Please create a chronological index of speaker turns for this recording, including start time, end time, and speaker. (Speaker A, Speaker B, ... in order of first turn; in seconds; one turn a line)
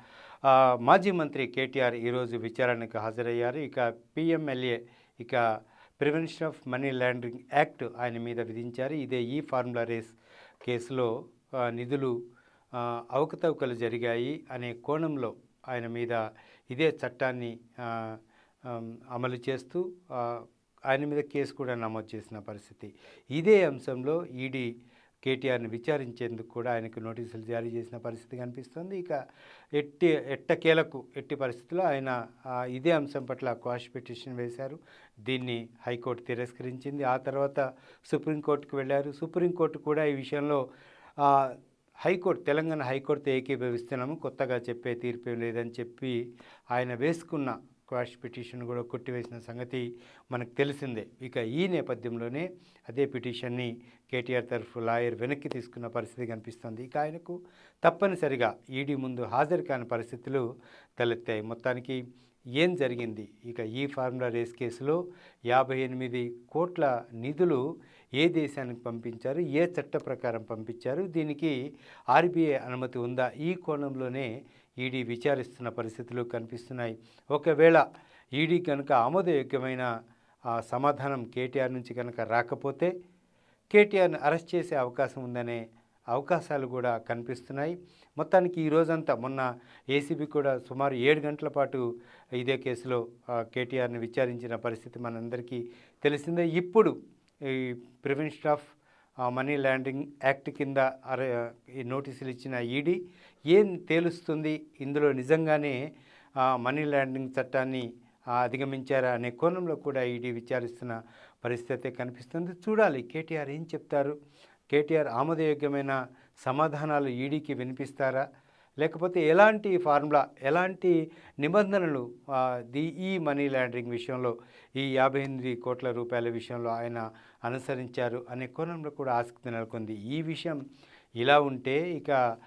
Speaker A: 0.5-5.4
Speaker A: 6.0-12.2
Speaker A: 12.7-16.2
Speaker A: 16.7-24.7
Speaker A: 25.2-29.2
Speaker A: 29.8-32.1
Speaker A: 32.7-40.6
Speaker A: 41.2-46.2
Speaker A: 46.7-60.5
Speaker A: 61.0-62.0
Speaker A: 62.6-65.0
Speaker A: 65.5-67.6
Speaker A: 68.2-71.5
Speaker A: 72.1-74.3
Speaker A: 74.8-77.8
Speaker A: 78.4-79.9
Speaker A: 80.5-82.9
Speaker A: 83.7-85.6
Speaker A: 86.1-91.8
Speaker A: 92.4-97.0
Speaker A: 97.5-98.7
Speaker A: 99.3-103.0
Speaker A: 103.5-105.8
Speaker A: 106.4-107.9
Speaker A: 108.4-114.2
Speaker A: 114.7-118.3
Speaker A: 118.8-130.6
Speaker A: 131.2-132.2